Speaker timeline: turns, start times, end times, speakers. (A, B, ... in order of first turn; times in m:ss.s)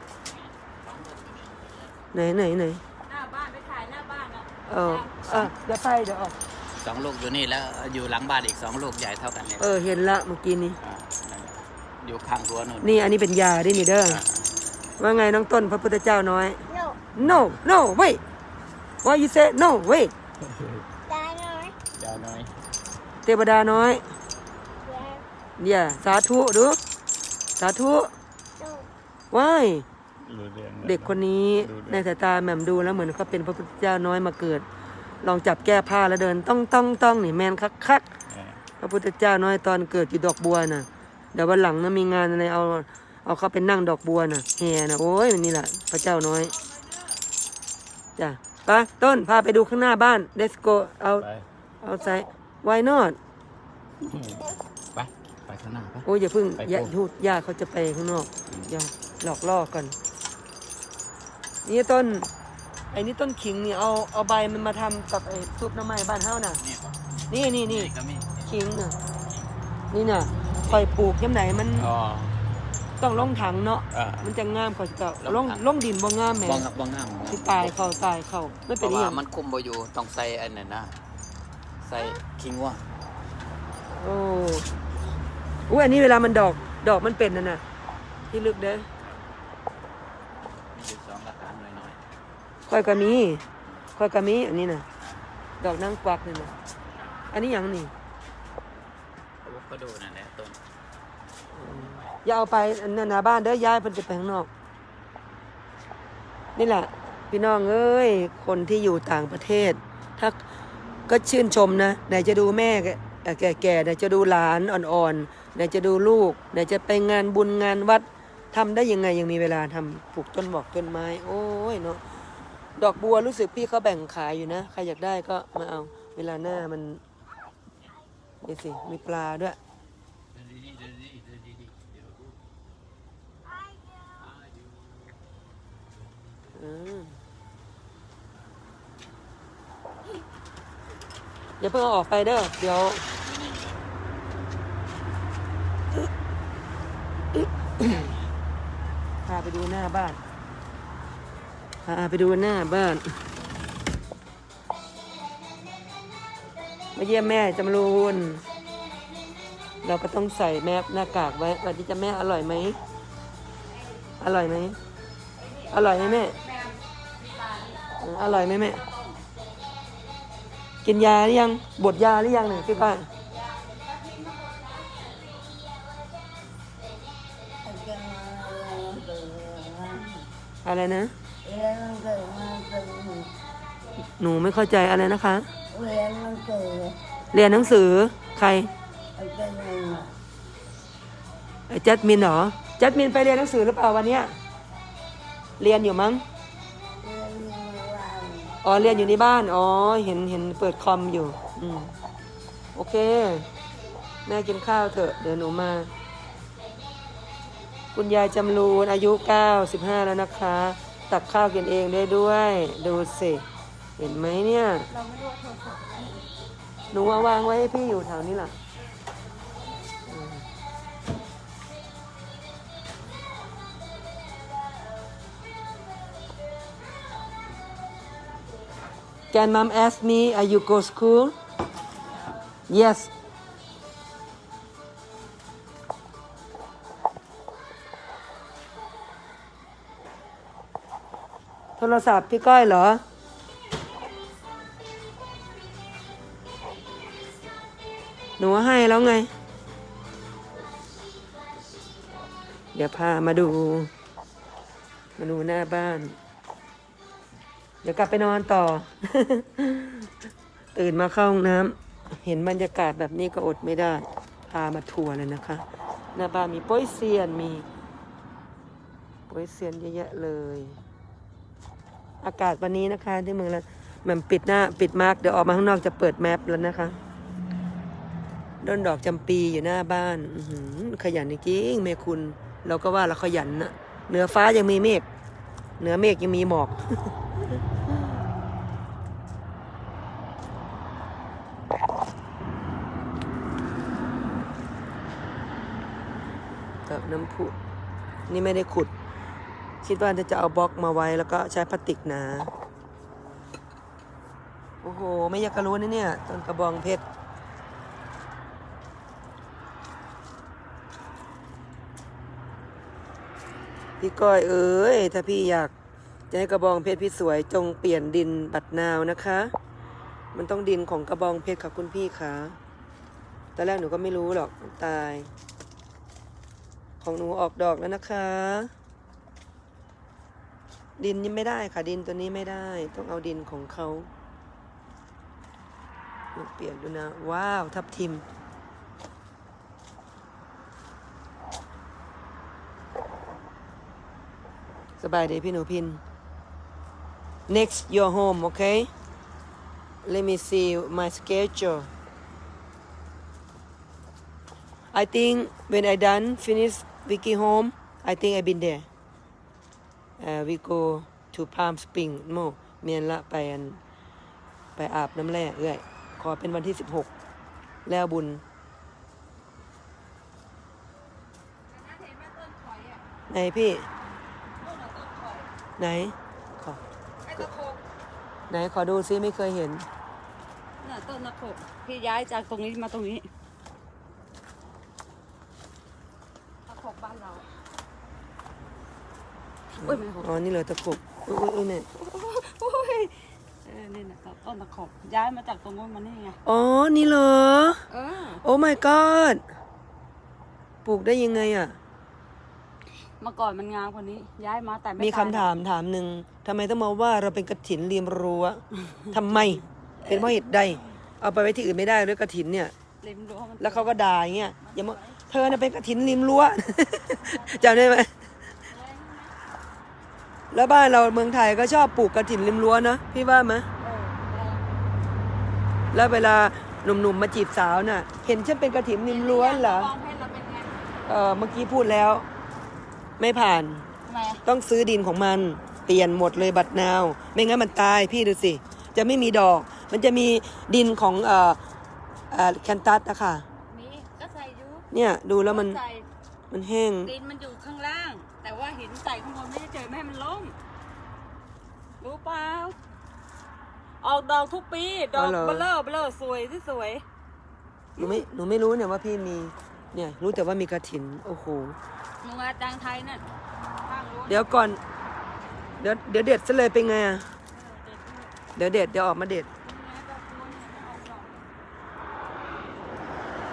0:00.3-0:02.1 A
0:02.1-0:02.8 B
0:03.1-0:05.2 C
0:04.7-0:06.4 B
0:05.2-0:05.5 A
0:06.8-0:09.8 A
0:09.6-0:10.8 B
0:10.8-0:13.0 A
0:12.8-0:14.2 B
0:13.7-0:14.5 A
0:15.0-0:16.6 B
0:16.7-0:17.0 D
0:17.2-0:18.2 B
0:19.0-0:20.1 B
0:20.5-0:20.8 A
0:21.1-0:21.8 D
0:21.9-0:22.6 A
0:23.2-0:24.0 B
0:24.8-0:25.2 D
0:25.6-0:26.8 B
0:27.6-0:28.1 B
0:28.6-0:28.9 D
0:29.3-0:29.9 B
0:30.2-0:32.1 A
0:30.8-0:34.6 B
0:35.2-0:38.1 B
0:38.3-0:38.6 A
0:38.8-0:46.5 B
0:46.5-0:47.2 C
0:48.2-0:51.3 B
0:51.2-0:51.5 A
0:51.8-0:53.2 B
0:54.0-0:56.1 A
0:56.1-1:00.0 B
0:56.6-0:56.9 A
1:01.6-1:02.3 B
1:02.9-1:06.6 B
1:06.6-1:08.5 A
1:07.3-1:07.9 B
1:08.5-1:09.0 B
1:09.9-1:11.9 B
1:11.8-1:12.4 A
1:13.0-1:16.7 B
1:13.9-1:14.3 A
1:15.2-1:15.7 A
1:16.4-1:17.8 A
1:17.3-1:19.2 B
1:18.7-1:20.9 A
1:21.8-1:22.8 A
1:23.9-1:24.7 B
1:25.7-1:27.6 B
1:28.3-1:28.9 B
1:30.7-1:32.0 A
1:32.7-1:33.4 B
1:34.0-1:34.8 B
1:35.6-1:36.5 B
1:37.3-1:37.9 B
1:39.4-1:40.6 A
1:41.5-1:44.5 B
1:46.6-1:50.4 B
1:51.1-2:02.0 B
2:02.8-2:07.0 B
2:08.4-2:09.6 B
2:10.3-2:12.4 A
2:14.2-2:15.2 A
2:16.6-2:17.2 B
2:21.6-2:23.0 B
2:27.3-2:28.2 B
2:29.2-2:30.2 B
2:31.8-2:33.2 B
2:37.0-2:38.4 B
2:39.8-2:42.8 B
2:44.2-2:44.8 B
2:45.4-2:49.2 C
2:45.7-2:46.4 B
2:48.0-2:48.8 B
2:50.8-2:53.1 B
2:53.2-2:55.4 C
2:57.6-3:00.1 D
3:00.6-3:01.1 B
3:01.4-3:03.3 D
3:04.2-3:05.5 B
3:05.8-3:07.0 D
3:07.3-3:08.7 B
3:09.2-3:10.1 D
3:11.7-3:14.4 B
3:15.6-3:16.2 B
3:17.0-3:18.6 D
3:18.6-3:21.9 B
3:22.8-3:23.5 B
3:24.3-3:25.9 B
3:28.0-3:33.5 B
3:34.0-3:34.9 B
3:34.9-3:36.3 C
3:36.9-3:38.6 B
3:40.1-3:40.4 B
3:49.3-3:51.4 B
3:52.7-3:53.1 B
4:01.8-4:03.0 B
4:08.4-4:09.3 B
4:12.8-4:13.9 B
4:15.2-4:16.2 B
4:17.8-4:20.1 B
4:20.8-4:25.6 B
4:26.2-4:27.7 B
4:29.3-4:30.8 B
4:32.2-4:37.0 B
4:38.6-4:45.0 B
4:45.8-4:48.0 B
4:56.9-4:57.6 B
4:58.3-4:58.9 B
4:59.8-5:02.5 B
5:04.8-5:07.0 B
5:14.0-5:15.7 B
5:16.3-5:19.5 B
5:20.3-5:22.6 B
5:23.6-5:25.3 B
5:27.0-5:28.7 B
5:31.0-5:34.1 B
5:36.3-5:38.2 B
5:45.0-5:46.0 B
5:47.5-5:48.9 B
5:50.0-5:51.9 B
5:54.9-5:58.8 B
6:00.2-6:03.8 B
6:04.8-6:07.1 B
6:07.9-6:08.4 B
6:11.7-6:13.0 C
6:13.3-6:13.9 B
6:14.6-6:15.5 C
6:15.8-6:16.8 B
6:17.2-6:17.8 C
6:18.5-6:19.9 B
6:20.8-6:23.3 C
6:26.7-6:27.5 C
6:29.8-6:30.3 C
6:29.8-6:31.9 B
6:32.0-6:36.4 C
6:36.5-6:37.8 B
6:37.9-6:38.4 C
6:38.4-6:39.4 B
6:40.8-6:41.8 B
6:43.2-6:45.5 C
6:45.0-6:52.7 B
6:53.0-6:54.0 C
6:53.6-6:58.2 B
6:54.6-6:55.4 C
6:57.2-6:58.0 C
6:58.6-6:59.4 C
7:00.5-7:03.7 B
7:03.8-7:04.8 C
7:05.9-7:09.9 B
7:09.0-7:10.8 C
7:11.0-7:12.3 B
7:13.2-7:13.9 B
7:14.1-7:14.4 C
7:14.5-7:21.6 B
7:22.3-7:23.5 B
7:23.7-7:24.9 C
7:24.9-7:25.8 B
7:25.4-7:26.1 C
7:26.5-7:27.1 B
7:27.0-7:30.6 C
7:32.0-7:32.8 C
7:34.0-7:37.0 C
7:35.1-7:35.7 B
7:38.0-7:41.8 B
7:42.2-7:43.2 C
7:43.8-7:44.6 C
7:44.3-7:44.8 B
7:45.8-7:47.3 B
7:47.5-7:48.4 C
7:48.6-7:49.5 B
7:49.6-7:51.5 C